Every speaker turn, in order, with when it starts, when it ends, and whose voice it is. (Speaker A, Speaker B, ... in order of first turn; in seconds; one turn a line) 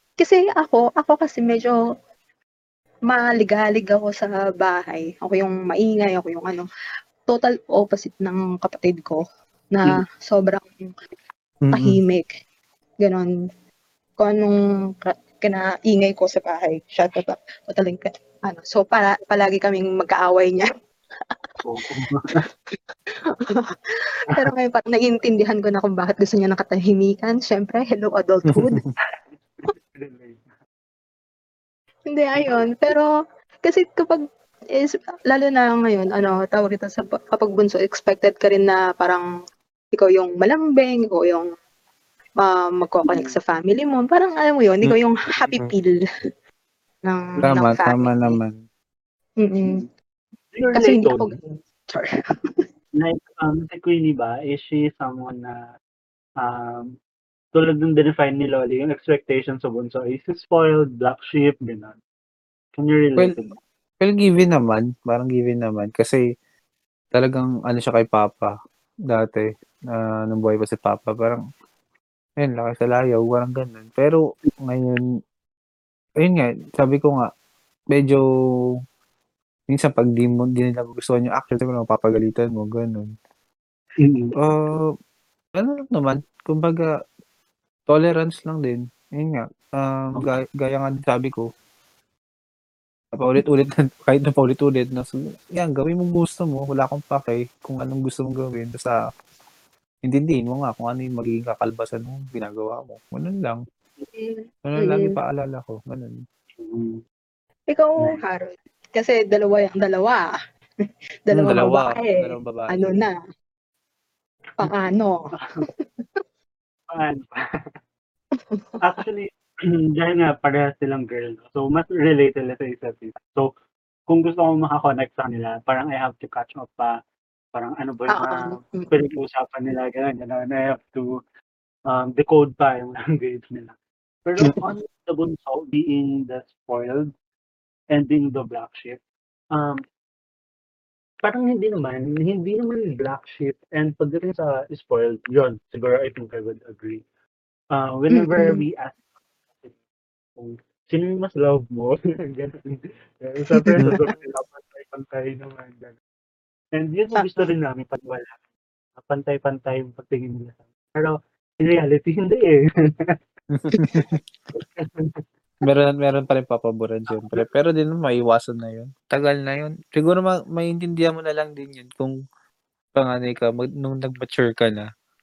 Speaker A: 0.2-1.8
Speaker A: 3.1-6.7
Speaker A: 7.3-9.2
Speaker A: 9.7-10.9
Speaker B: 11.6-12.0
Speaker A: 11.7-12.3
Speaker A: 13.0-13.3
Speaker A: 14.2-20.7
Speaker C: 21.6-22.4
Speaker A: 24.3-28.8
Speaker B: 28.5-28.9
Speaker C: 29.1-30.5
Speaker A: 32.1-33.1
Speaker A: 33.6-34.2
Speaker A: 34.8-39.2
Speaker A: 39.9-41.5
Speaker A: 42.4-46.0
Speaker C: 43.1-43.3
Speaker A: 47.1-48.4
Speaker B: 47.5-48.6
Speaker A: 49.4-49.9
Speaker C: 50.5-51.3
Speaker A: 50.8-52.1
Speaker C: 53.0-55.6
Speaker C: 56.4-57.0
Speaker C: 57.5-62.0
Speaker C: 62.7-63.6
Speaker B: 64.0-66.2
Speaker B: 67.2-68.5
Speaker B: 69.1-71.4
Speaker B: 72.4-75.0
Speaker B: 76.2-77.3
Speaker B: 77.9-78.2
Speaker B: 79.7-83.1
Speaker C: 84.0-84.3
Speaker B: 84.4-84.9
Speaker B: 85.5-86.9
Speaker B: 87.9-91.5
Speaker B: 93.2-99.0
Speaker B: 100.0-103.6
Speaker A: 104.2-105.2
Speaker B: 104.6-106.2
Speaker C: 106.6-107.0
Speaker A: 107.7-110.3
Speaker A: 111.3-113.1
Speaker B: 111.3-112.7
Speaker A: 114.6-115.3
Speaker C: 116.9-117.4
Speaker A: 118.5-119.0
Speaker C: 118.8-123.5
Speaker C: 124.1-127.0
Speaker C: 127.5-131.2
Speaker A: 128.1-128.9
Speaker C: 131.9-133.8
Speaker C: 134.3-137.1
Speaker C: 137.9-139.0
Speaker C: 139.5-139.8
Speaker C: 141.2-147.0
Speaker C: 147.7-149.8
Speaker A: 148.1-148.6
Speaker C: 150.4-156.0
Speaker A: 153.5-154.0
Speaker C: 156.8-158.4
Speaker C: 159.0-163.1
Speaker B: 163.6-164.2
Speaker C: 164.6-165.2
Speaker B: 165.7-172.1
Speaker B: 173.0-174.8